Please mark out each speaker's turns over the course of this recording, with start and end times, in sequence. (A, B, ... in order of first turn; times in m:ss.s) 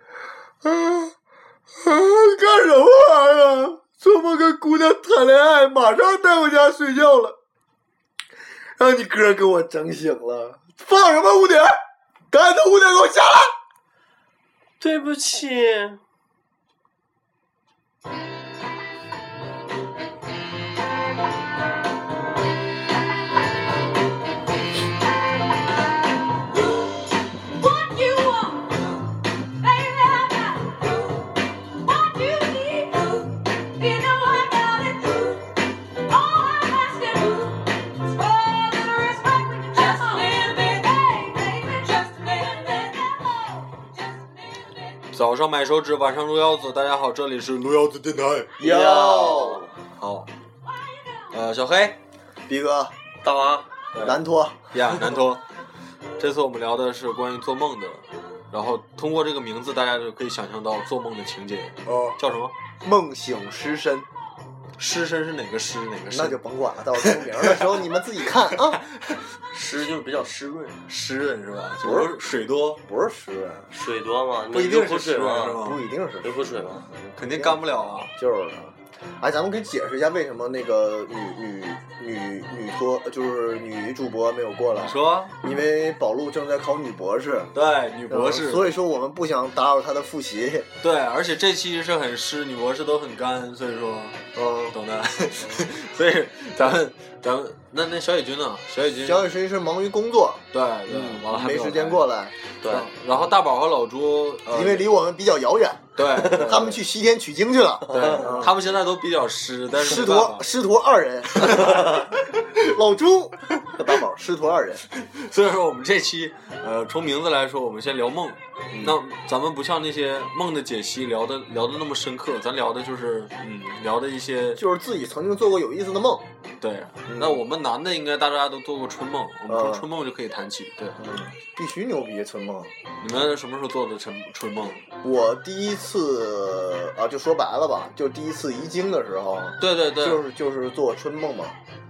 0:00.6-0:01.1 A
0:01.8-0:07.4 A
0:08.8-0:11.8 A
0:12.3-0:13.5 A
0:14.8-0:16.0 B
0:26.5-0:28.9 C
0:29.6-0:43.8 C
0:45.1-0:48.6 D
0:48.6-0:49.7 A
0:48.6-0:49.7 B
0:50.0-0:50.3 D
0:51.3-0:52.0 D
0:52.5-0:52.9 A
0:53.2-0:53.7 B
0:53.9-0:54.2 D
0:54.0-0:55.1 A
0:54.7-0:55.4 D
0:56.2-1:02.5 D
1:01.9-1:02.2 A
1:02.8-1:04.1 A
1:04.8-1:06.4 D
1:06.1-1:08.8 A
1:07.0-1:07.9 D
1:08.5-1:09.2 D
1:09.5-1:10.8 B
1:10.9-1:12.8 D
1:11.8-1:12.2 A
1:12.8-1:13.7 A
1:13.7-1:15.6 B
1:14.5-1:15.8 D
1:15.6-1:27.5 A
1:16.2-1:16.8 B
1:17.1-1:18.1 D
1:24.8-1:25.5 D
1:27.6-1:28.7 D
1:28.1-1:30.7 A
1:30.8-1:39.3 D
1:34.4-1:34.8 A
1:35.4-1:35.7 A
1:39.0-1:42.4 A
1:40.5-1:42.0 D
1:42.6-1:42.9 B
1:42.7-1:44.9 D
1:44.5-1:48.6 A
1:46.0-1:46.8 D
1:46.2-1:46.7 B
1:47.9-1:48.4 B
1:47.9-1:50.5 D
1:49.8-1:54.9 A
1:51.4-1:52.0 D
1:55.0-2:04.6 D
1:58.7-1:59.0 A
2:04.6-2:06.2 A
2:06.6-2:11.0 D
2:07.1-2:07.4 A
2:09.5-2:09.9 A
2:11.0-2:12.7 A
2:13.0-2:14.8 D
2:15.0-2:21.6 A
2:19.6-2:20.2 D